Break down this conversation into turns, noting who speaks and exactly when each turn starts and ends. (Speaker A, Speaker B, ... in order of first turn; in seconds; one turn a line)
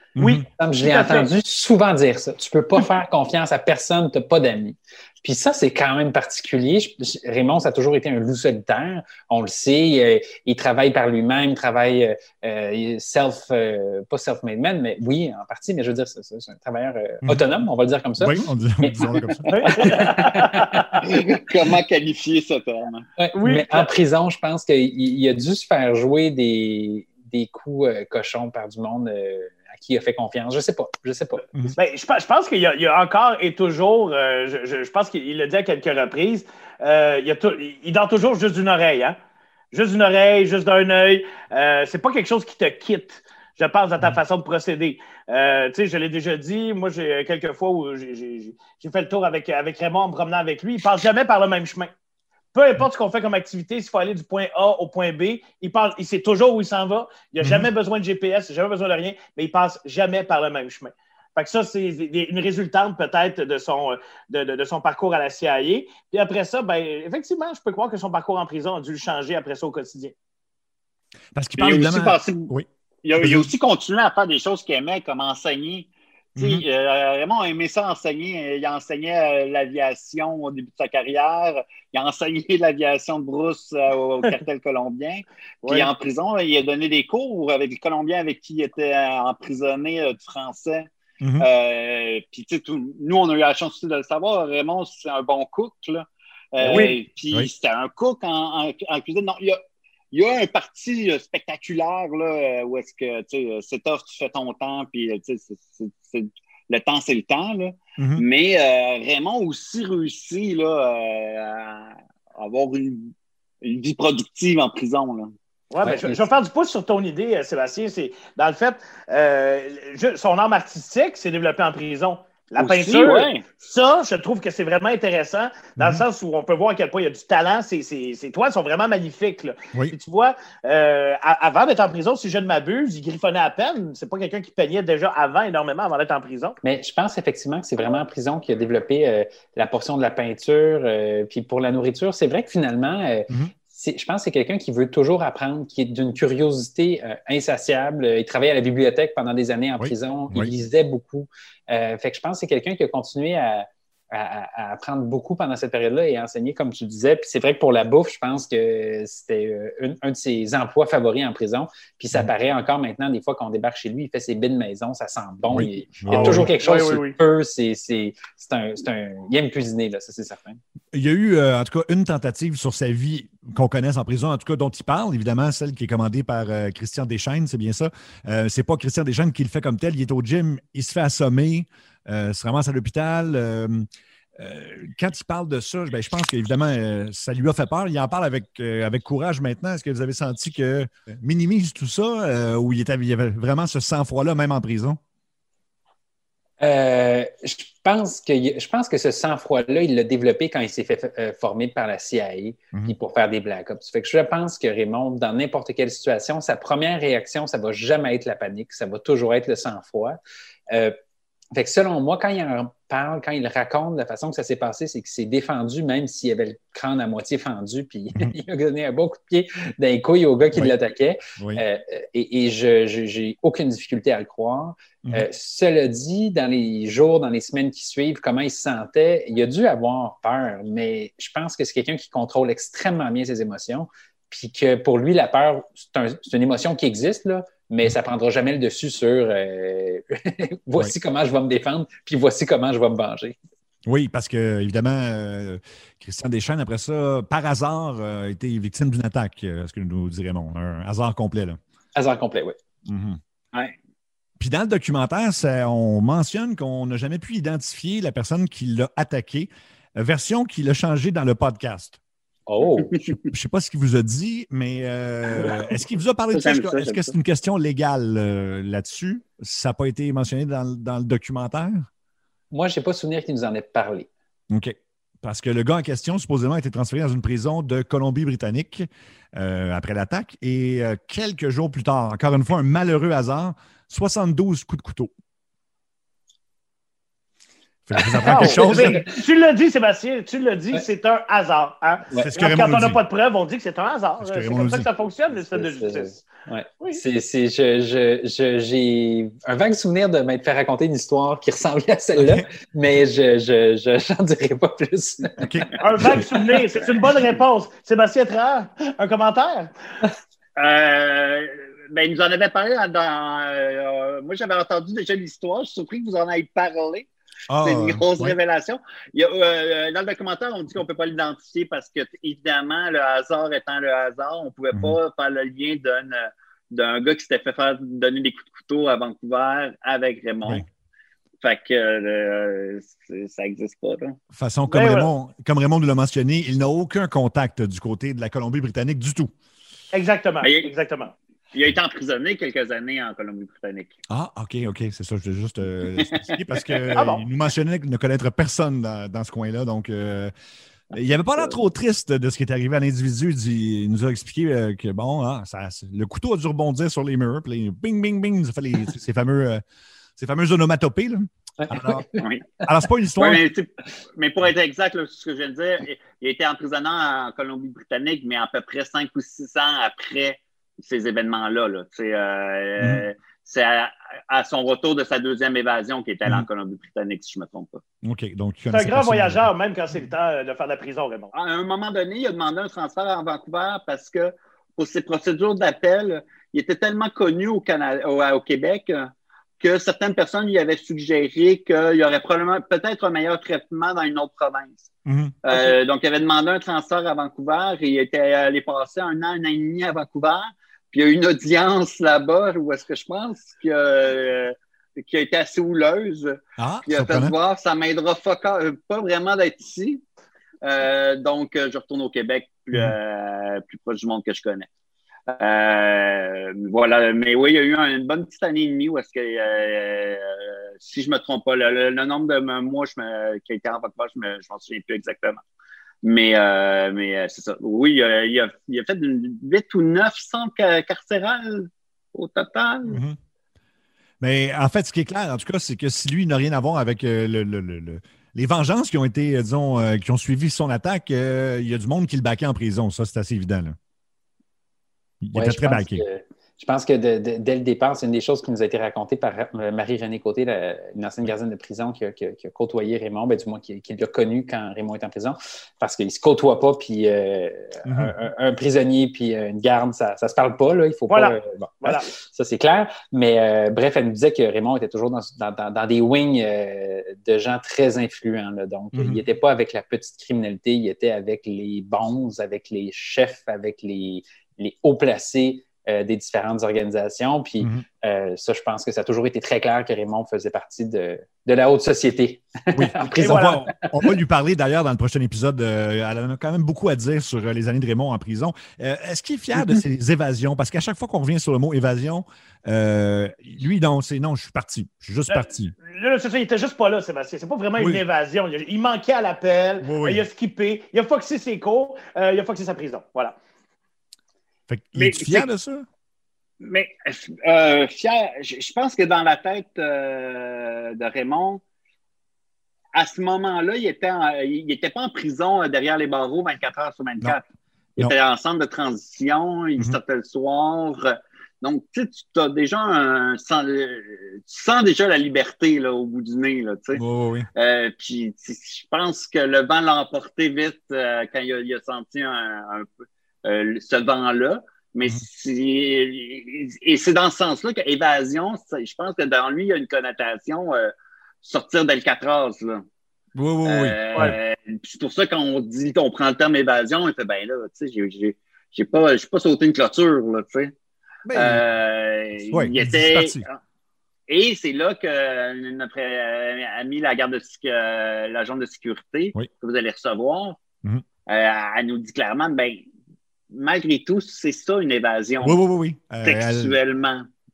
Speaker A: 0.2-0.4
Speaker B: 0.2-1.3
Speaker C: 0.5-21.1
Speaker A: 18.2-20.1
Speaker B: 19.5-21.0
Speaker D: 21.1-23.0
Speaker C: 23.2-31.4
Speaker B: 23.4-23.9
Speaker B: 31.7-39.1
Speaker B: 39.7-51.9
Speaker B: 52.5-70.1
Speaker A: 57.4-57.7
Speaker A: 71.3-73.5
Speaker D: 71.6-72.5
Speaker D: 73.0-90.9
Speaker A: 76.4-76.6
Speaker A: 91.2-91.5
Speaker D: 91.4-99.6
Speaker B: 96.7-96.9
Speaker A: 96.7-97.5
Speaker D: 100.1-115.3
Speaker A: 108.0-108.2
Speaker B: 115.7-136.6
Speaker C: 115.8-116.3
Speaker D: 122.5-123.5
Speaker A: 125.8-126.0
Speaker C: 136.6-170.6
Speaker A: 149.8-150.5
Speaker A: 165.5-166.5
Speaker B: 166.1-167.2
Speaker A: 170.9-183.9
Speaker A: 184.4-195.0
Speaker C: 196.6-210.2
Speaker C: 210.7-210.9
Speaker C: 211.5-243.4
Speaker A: 221.4-221.6
Speaker A: 243.9-251.6
Speaker C: 251.9-252.6
Speaker A: 252.9-253.2
Speaker A: 254.4-262.0
Speaker C: 262.5-263.0
Speaker A: 263.3-271.9
Speaker D: 266.3-267.1
Speaker C: 272.5-274.1
Speaker A: 274.5-285.1
Speaker A: 287.9-289.0
Speaker C: 288.1-289.2
Speaker B: 288.2-296.3
Speaker C: 292.1-292.4
Speaker A: 292.1-293.0
Speaker A: 294.2-294.9
Speaker C: 295.3-306.2
Speaker A: 302.2-302.4
Speaker A: 305.4-306.3
Speaker B: 305.8-309.7
Speaker D: 310.6-317.1
Speaker A: 317.5-318.4
Speaker D: 317.6-330.6
Speaker A: 324.7-325.0
Speaker D: 331.4-334.2
Speaker A: 334.3-339.3
Speaker B: 334.7-335.1
Speaker B: 339.9-341.1
Speaker D: 340.4-340.7
Speaker D: 341.5-343.9
Speaker A: 344.1-350.3
Speaker D: 346.1-346.4
Speaker B: 346.9-347.2
Speaker A: 350.9-359.6
Speaker A: 360.2-362.1
Speaker C: 361.6-362.3
Speaker A: 362.6-363.4
Speaker D: 363.2-377.8
Speaker A: 372.8-373.1
Speaker A: 378.0-379.5
Speaker B: 378.7-381.3
Speaker D: 381.3-394.9
Speaker A: 395.1-395.4
Speaker D: 395.4-410.0
Speaker A: 406.6-407.3
Speaker D: 410.6-414.7
Speaker D: 415.3-425.4
Speaker D: 426.0-433.0
Speaker A: 432.8-433.2
Speaker A: 434.2-443.8
Speaker A: 445.2-446.0
Speaker C: 445.3-484.1
Speaker A: 457.9-458.1
Speaker B: 461.1-462.1
Speaker A: 468.9-469.2
Speaker A: 482.7-495.7
Speaker B: 483.2-483.6
Speaker B: 495.3-503.4
Speaker A: 497.8-498.0
Speaker A: 499.8-500.2
Speaker A: 504.7-505.9
Speaker D: 506.6-511.6
Speaker D: 512.9-517.4
Speaker D: 518.0-527.0
Speaker A: 527.0-527.5
Speaker D: 527.5-542.8
Speaker A: 543.3-544.4
Speaker D: 543.6-550.7
Speaker A: 551.3-551.6
Speaker D: 551.3-553.5
Speaker A: 552.5-553.5
Speaker D: 554.3-560.6
Speaker D: 561.3-562.8
Speaker D: 563.5-565.6
Speaker A: 565.4-566.8
Speaker D: 566.2-567.3